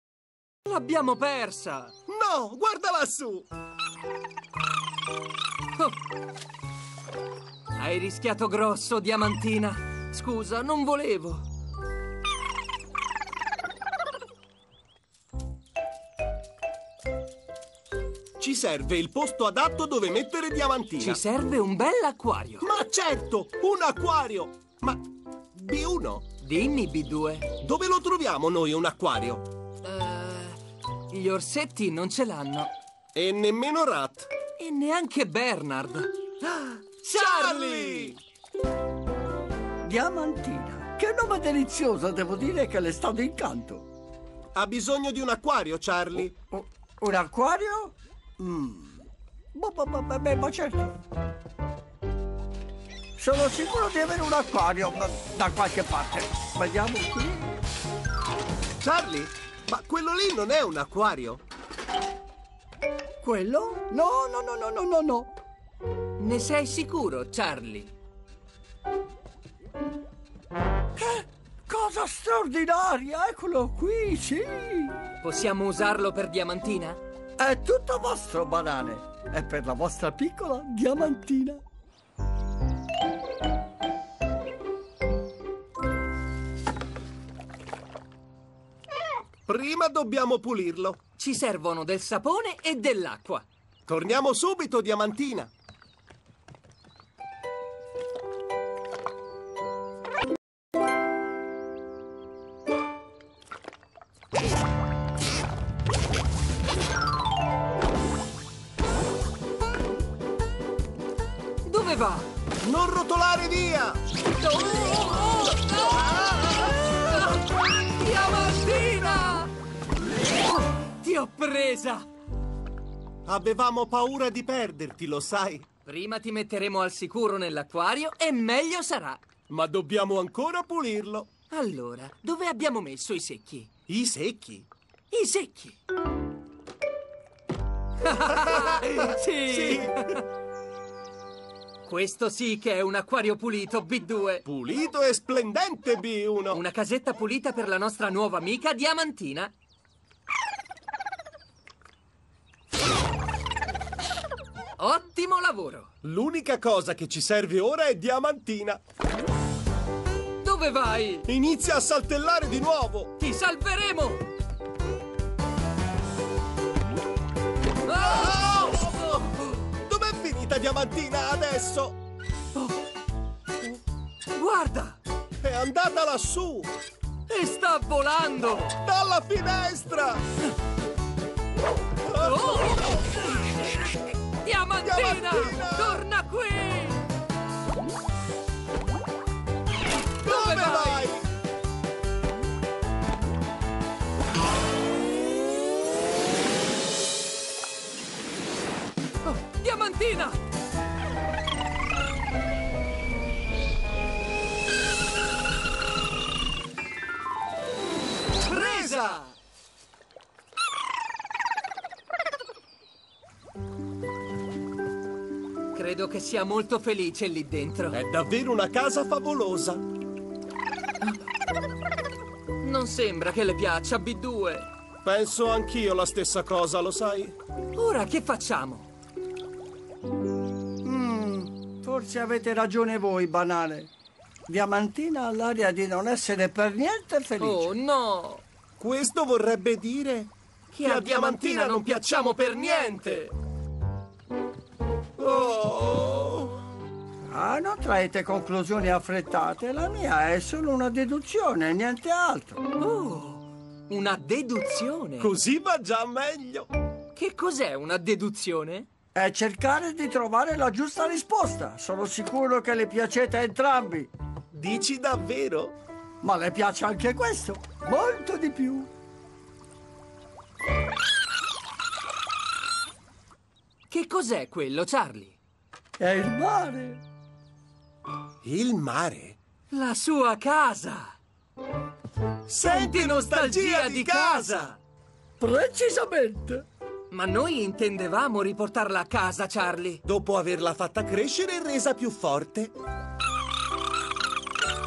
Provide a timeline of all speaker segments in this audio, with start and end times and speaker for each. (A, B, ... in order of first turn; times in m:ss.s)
0:00.6-0:01.9 A
0:02.1-0:03.5 B
0:07.8-0:11.4 A
0:18.4-0:21.2 B
0:21.0-0:22.6 A
0:22.6-0:25.0 B
0:25.6-0:26.3 B
0:26.4-0:27.5 A
0:27.6-0:29.5 B
0:29.8-0:32.7 A
0:33.2-0:34.3 B
0:34.6-0:38.2 A
0:37.1-0:38.2 B
0:39.8-0:43.8 C
0:44.6-0:46.3 B
0:46.5-0:50.9 C
0:53.2-0:57.5 C
0:58.8-1:01.4 B
1:03.2-1:05.3 C
1:06.2-1:07.9 A
1:11.0-1:15.0 C
1:15.2-1:17.0 A
1:17.4-1:21.6 C
1:29.5-1:31.0 B
1:31.2-1:33.5 A
1:33.9-1:35.5 B
1:51.6-1:52.3 A
1:52.6-1:54.0 B
1:54.3-1:59.5 A
1:56.0-1:56.4 B
1:59.1-1:59.4 B
2:00.5-2:02.1 A
2:03.3-2:05.7 B
2:05.8-2:09.2 A
2:09.5-2:11.3 B
2:11.5-2:13.7 A
2:13.9-2:14.7 B
2:15.1-2:15.8 A
2:18.0-2:20.2 A
2:18.5-2:20.0 B
2:21.8-2:24.4 A
2:24.4-2:26.6 B
2:26.5-2:29.5 A
2:34.8-2:35.9 A
2:36.0-2:38.8 B
2:40.4-2:41.3 A
2:41.3-2:43.1 B
2:43.2-2:44.2 A
2:47.8-2:49.6 A
2:48.0-2:52.0 B
2:54.3-2:55.0 A
2:55.4-2:56.7 B
2:57.3-2:58.8 A
2:58.8-3:00.2 B
3:02.1-3:02.9 B
3:02.1-3:03.1 A
3:04.4-3:07.0 A
3:04.8-3:06.0 B
3:10.2-3:11.2 B
3:10.2-3:11.1 A
3:19.2-3:20.4 A
3:28.4-3:29.4 A
3:28.5-3:29.2 B
3:35.7-3:38.0 A
3:37.9-3:39.8 B
3:42.6-3:44.7 A
3:45.0-3:47.4 B
3:47.7-3:48.9 A
3:50.8-3:53.9 C
3:54.5-3:57.7 C
3:57.4-3:58.4 A
3:58.8-4:00.3 B
4:00.7-4:03.3 A
4:00.8-4:03.1 B
4:05.2-4:06.6 B
4:07.3-4:12.6 C
4:12.8-4:15.3 A
4:15.2-4:16.7 B
4:17.2-4:18.9 A
4:19.2-4:24.1 C
4:24.5-4:25.7 B
4:26.2-4:28.9 C
4:33.9-4:35.4 A
4:36.0-4:37.0 C
4:38.4-4:39.4 B
4:39.7-4:41.2 A
4:42.5-4:44.7 B
4:42.6-4:44.8 A
4:45.4-4:46.6 C
4:47.1-4:50.0 A
4:50.0-4:52.7 B